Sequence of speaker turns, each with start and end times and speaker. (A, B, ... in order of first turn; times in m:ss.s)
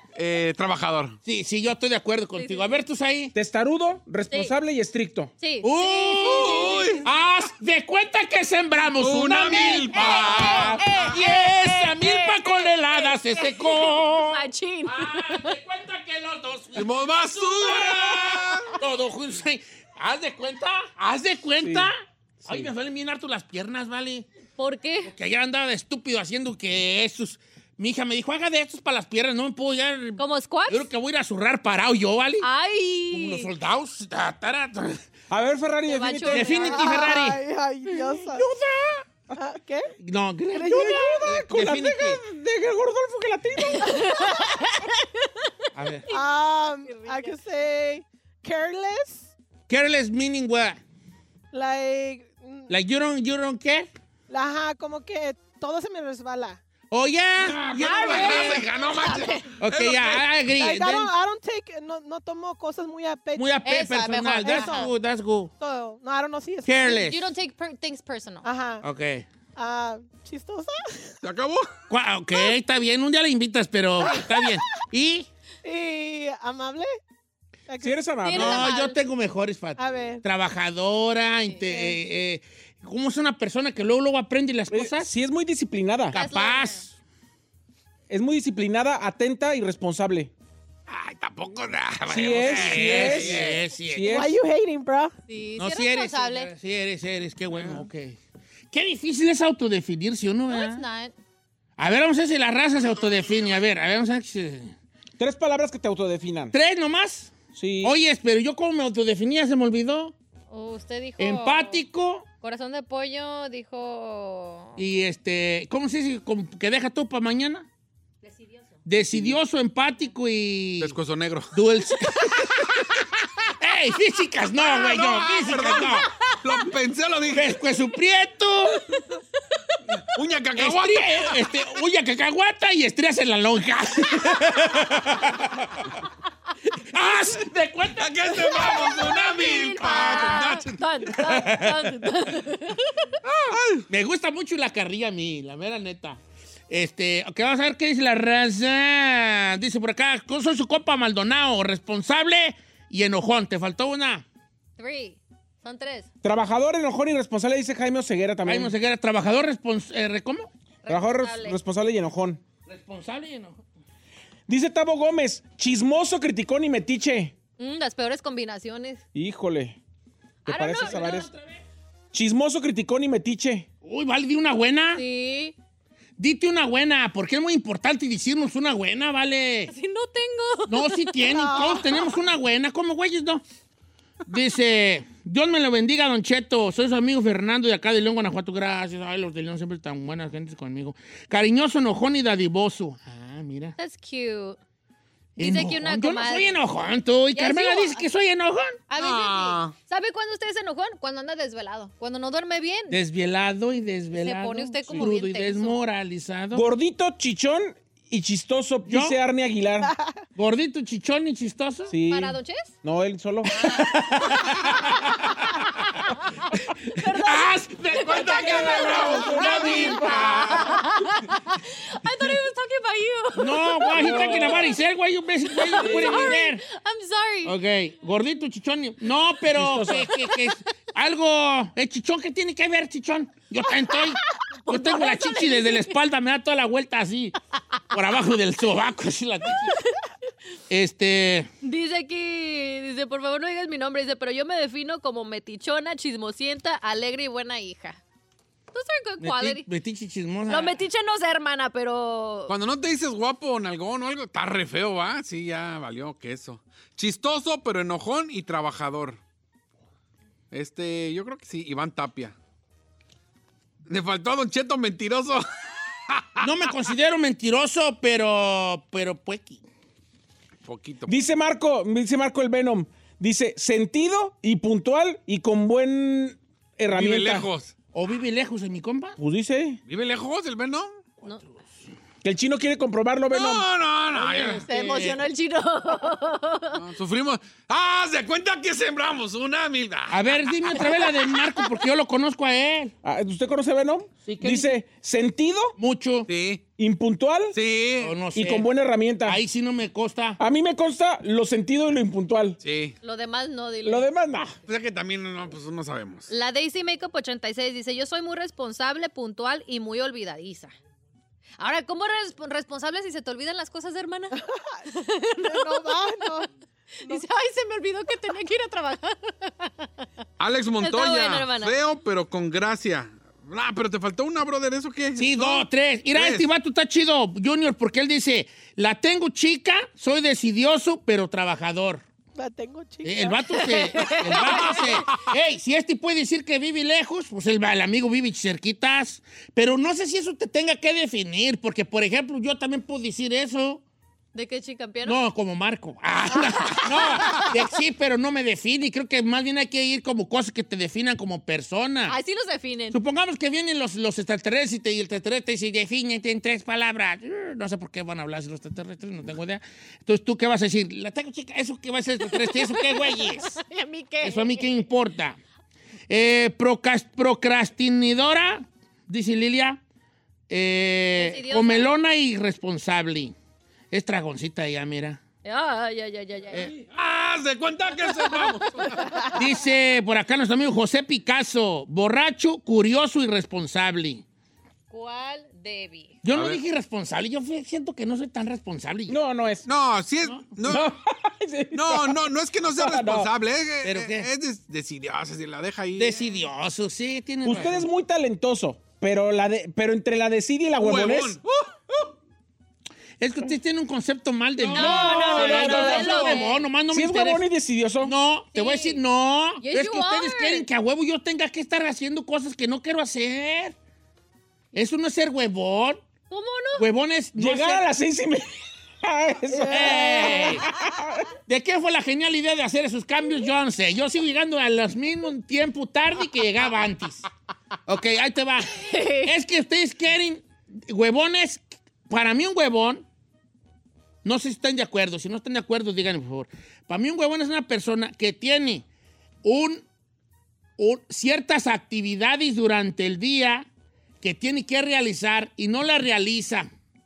0:00.1-0:01.2 A
0:01.2-0:03.3 B
0:02.4-0:02.8 C
0:03.3-0:05.3 D
0:05.4-0:07.0 C
0:05.6-0:24.3 B
0:06.1-0:07.1 A
0:09.0-0:10.8 A
0:09.7-0:15.5 C
0:16.7-0:18.8 A
0:21.6-0:21.9 D
0:22.4-0:22.7 D
0:24.6-0:25.1 C
0:25.0-0:32.4 B
0:30.2-0:30.9 C
0:32.4-0:33.5 C
0:33.1-0:35.0 B
0:35.3-0:36.8 D
0:35.9-0:36.9 C
0:36.3-0:39.0 B
0:36.7-0:38.5 E
0:39.3-0:39.9 E
0:40.0-0:42.2 B
0:40.6-0:44.1 D
0:43.7-0:44.9 C
0:44.0-0:44.5 E
0:45.7-0:46.1 B
0:46.1-0:47.4 C
0:46.1-0:49.3 E
0:49.7-0:50.8 B
0:51.5-0:52.8 E
0:52.7-0:53.9 B
0:54.3-0:56.6 E
0:56.9-0:58.7 B
0:57.4-1:00.3 A
0:57.8-0:58.7 C
0:57.8-0:58.6 E
0:59.6-1:01.1 B
1:00.5-1:03.4 E
1:03.4-1:05.5 B
1:03.6-1:04.9 C
1:04.4-1:04.9 E
1:05.6-1:07.0 E
1:06.6-1:07.2 B
1:06.9-1:08.5 C
1:08.4-1:08.8 E
1:08.8-1:09.2 B
1:09.6-1:11.2 E
1:11.2-1:11.7 A
1:11.9-1:15.3 B
1:14.0-1:14.6 E
1:15.6-1:16.9 E
1:17.7-1:18.1 E
1:17.8-1:18.7 D
1:18.2-1:19.0 C
1:18.3-1:25.1 B
1:19.8-1:20.2 E
1:21.7-1:22.0 E
1:24.7-1:26.2 D
1:26.1-1:26.9 B
1:26.1-1:26.8 C
1:28.1-1:30.3 D
1:30.9-1:34.2 B
1:32.1-1:34.4 D
1:32.7-1:33.5 A
1:34.1-1:35.1 E
1:35.3-1:36.5 C
1:35.6-1:38.2 B
1:38.7-1:40.8 B
1:40.5-1:41.1 C
1:41.8-1:44.7 B
1:45.2-1:46.5 D
1:46.5-1:50.1 B
1:47.5-1:48.0 D
1:50.5-1:51.8 C
1:51.2-1:52.2 B
1:52.4-1:54.8 C
1:54.8-1:57.7 B
1:58.8-2:01.0 B
2:00.8-2:01.6 A
2:01.5-2:06.1 B
2:04.6-2:07.6 A
2:07.3-2:08.9 B
2:10.1-2:11.3 A
2:10.5-2:15.7 B
2:16.6-2:18.3 B
2:18.0-2:20.8 A
2:18.3-2:23.2 C
2:21.2-2:22.0 B
2:23.2-2:23.8 A
2:23.9-2:34.2 B
2:34.8-2:36.1 C
2:36.2-2:38.7 D
2:38.4-2:40.5 B
2:40.8-2:41.6 C
2:40.9-2:42.4 D
2:42.7-2:43.6 B
2:44.5-2:47.3 D
2:47.6-2:49.0 C
2:49.1-2:49.8 D
2:50.4-2:51.3 D
2:50.4-2:51.3 C
2:50.9-2:51.5 B
2:52.1-2:53.7 D
2:53.8-2:55.0 B
2:54.9-2:55.5 C
2:56.2-2:59.7 B
2:59.7-3:01.5 C
3:00.6-3:03.4 B
3:01.3-3:02.0 E
3:04.2-3:13.8 B
3:13.8-3:14.6 C
3:15.4-3:16.6 C
3:15.4-3:18.8 B
3:17.3-3:18.0 C
3:18.9-3:23.0 C
3:19.0-3:19.7 A
3:22.9-3:26.6 B
3:24.1-3:25.8 C
3:26.5-3:29.9 D
3:28.8-3:29.2 B
3:29.8-3:30.1 E
3:30.4-3:31.9 B
3:31.9-3:33.8 D
3:32.1-3:32.7 C
3:33.6-3:35.2 B
3:36.9-3:40.8 B
3:37.0-3:44.6 C
3:38.1-3:40.7 D
3:43.3-3:46.6 B
3:43.9-3:44.7 D
3:45.5-3:47.5 C
3:45.8-3:46.3 D
3:47.4-3:57.4 B
3:49.5-3:50.1 D
3:54.6-3:56.0 C
3:57.9-3:59.8 B
4:00.7-4:01.5 B
4:01.6-4:08.0 C
4:08.7-4:09.7 C
4:09.2-4:10.8 B
4:10.5-4:12.5 C
4:12.5-4:19.2 A
4:20.5-4:22.3 A
4:23.9-4:25.4 A
4:26.1-4:26.5 A
4:26.4-4:29.6 B
4:30.6-4:31.2 A
4:31.1-4:37.5 D
4:36.9-4:37.7 A
4:37.9-4:39.2 B
4:39.2-4:39.8 D
4:39.9-4:40.9 A
4:41.2-4:41.8 B
4:42.2-4:43.7 D
4:43.3-4:44.7 A
4:44.1-4:45.2 B
4:44.7-4:46.8 C
4:46.7-4:50.3 A
4:50.1-4:52.9 B
4:50.8-4:51.7 C
4:53.0-4:55.7 D
4:54.2-4:54.7 B
4:55.8-4:56.3 B
4:56.3-4:56.6 A
4:56.8-4:57.6 D
4:57.5-4:58.1 A
4:58.0-4:58.7 B
4:58.3-4:59.4 D
4:59.2-5:00.4 B
5:00.4-5:02.6 D
5:02.6-5:03.0 A
5:03.0-5:04.1 C
5:03.8-5:04.6 D
5:04.6-5:06.3 A
5:06.3-5:10.7 C
5:11.6-5:16.4 C
5:14.3-5:16.5 E
5:17.0-5:20.0 C
5:20.4-5:26.5 A
5:20.8-5:21.7 C
5:25.2-5:32.0 B
5:32.3-5:34.4 E
5:33.0-5:43.8 B
5:33.9-5:34.8 C
5:44.3-5:45.2 C
5:45.0-5:52.1 B
5:46.3-5:47.6 C
5:52.1-5:53.0 C
5:52.9-6:03.6 B
6:02.2-6:04.8 C
6:04.2-6:05.4 B
6:06.1-6:09.8 B
6:10.5-6:13.3 B
6:11.2-6:11.9 C
6:13.9-6:15.2 B
6:15.4-6:16.7 C
6:16.8-6:19.3 A
6:18.1-6:19.4 C
6:19.3-6:24.2 B
6:24.9-6:26.2 C
6:26.2-6:29.2 B
6:26.3-6:26.6 A
6:29.1-6:29.6 D
6:29.7-6:30.9 A
6:30.2-6:30.6 B
6:30.7-6:33.3 D
6:31.7-6:36.4 A
6:33.8-6:34.3 B
6:36.0-6:37.9 B
6:37.4-6:41.4 D
6:40.8-6:41.8 A
6:43.2-6:47.4 B
6:44.7-6:48.1 D
6:44.7-6:46.6 C
6:44.9-6:45.7 A
6:48.0-6:53.8 B
6:48.5-6:49.0 C
6:49.6-6:50.7 C
6:54.7-6:56.0 B
6:56.3-6:56.8 C
6:56.8-6:57.8 B
6:57.4-7:01.2 D
6:59.6-7:00.3 E
6:59.7-7:00.6 B
7:01.5-7:07.3 B
7:07.9-7:13.0 B
7:08.7-7:09.3 C
7:14.2-7:18.8 B
7:19.4-7:19.8 B
7:20.8-7:23.7 B
7:24.2-7:26.7 B